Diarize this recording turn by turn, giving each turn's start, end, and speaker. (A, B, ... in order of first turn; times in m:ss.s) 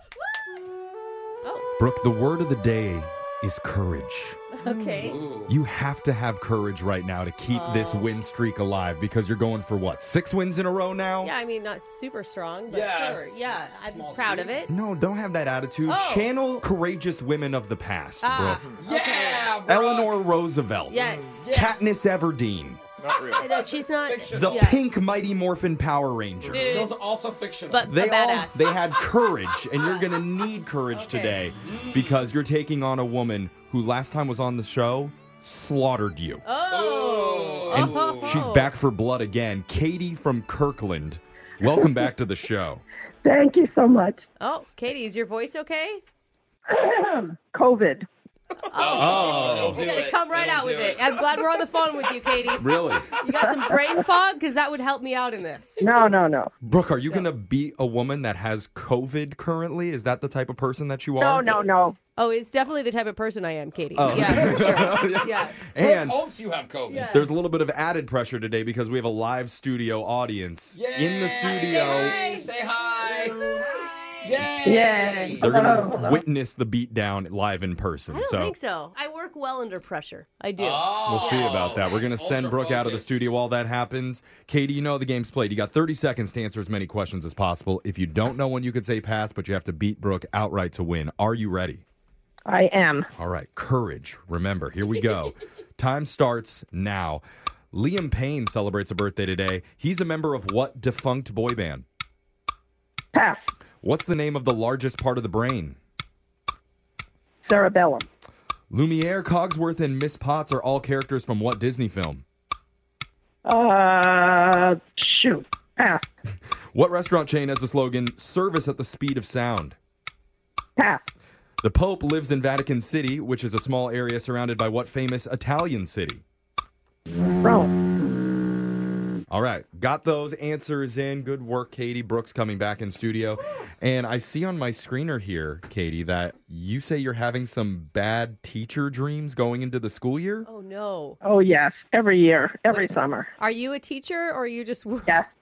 0:01.4-0:01.7 A
0:01.8-0:04.9 B
0:04.6-0:05.2 A
0:05.0-0:05.5 C
0:05.5-0:11.3 B
0:07.5-0:08.1 A
0:11.2-0:14.7 A
0:12.7-0:14.5 C
0:14.7-0:18.6 B
0:15.9-0:16.3 A
0:18.2-0:19.5 A
0:18.8-0:20.1 C
0:19.7-0:22.8 B
0:20.9-0:21.5 A
0:21.4-0:21.9 C
0:23.1-0:24.6 C
0:23.4-0:24.8 A
0:24.3-0:26.8 B
0:26.5-0:26.9 A
0:26.6-0:27.9 C
0:27.7-0:28.7 A
0:27.9-0:36.4 B
0:29.8-0:30.1 A
0:30.9-0:31.4 A
0:31.6-0:32.3 C
0:36.4-0:38.7 A
0:36.7-0:38.4 C
0:37.7-0:42.8 B
0:43.2-0:44.2 D
0:44.4-0:46.0 A
0:46.7-0:48.1 D
0:48.7-0:55.8 A
0:48.8-0:51.1 C
0:49.0-0:49.9 B
0:52.6-0:53.1 B
0:55.8-0:56.5 D
0:56.6-1:01.6 B
1:01.2-1:02.0 D
1:02.2-1:05.6 A
1:04.0-1:06.2 B
1:04.0-1:05.0 C
1:05.8-1:07.1 C
1:06.9-1:07.3 A
1:07.1-1:12.2 B
1:10.7-1:13.4 C
1:11.4-1:12.5 A
1:14.2-1:15.5 C
1:14.6-1:16.2 D
1:15.4-1:18.5 B
1:18.1-1:21.7 A
1:20.6-1:23.3 C
1:21.1-1:31.8 B
1:32.5-1:33.1 D
1:33.2-1:41.8 B
1:43.1-1:43.4 D
1:43.8-1:45.8 B
1:47.5-1:48.1 D
1:48.7-1:52.2 B
1:53.4-1:56.0 D
1:56.7-1:59.8 B
2:00.8-2:01.0 D
2:01.6-2:06.2 B
2:07.4-2:07.7 D
2:09.3-2:20.5 B
2:20.4-2:21.2 A
2:21.2-2:23.3 D
2:22.7-2:25.2 A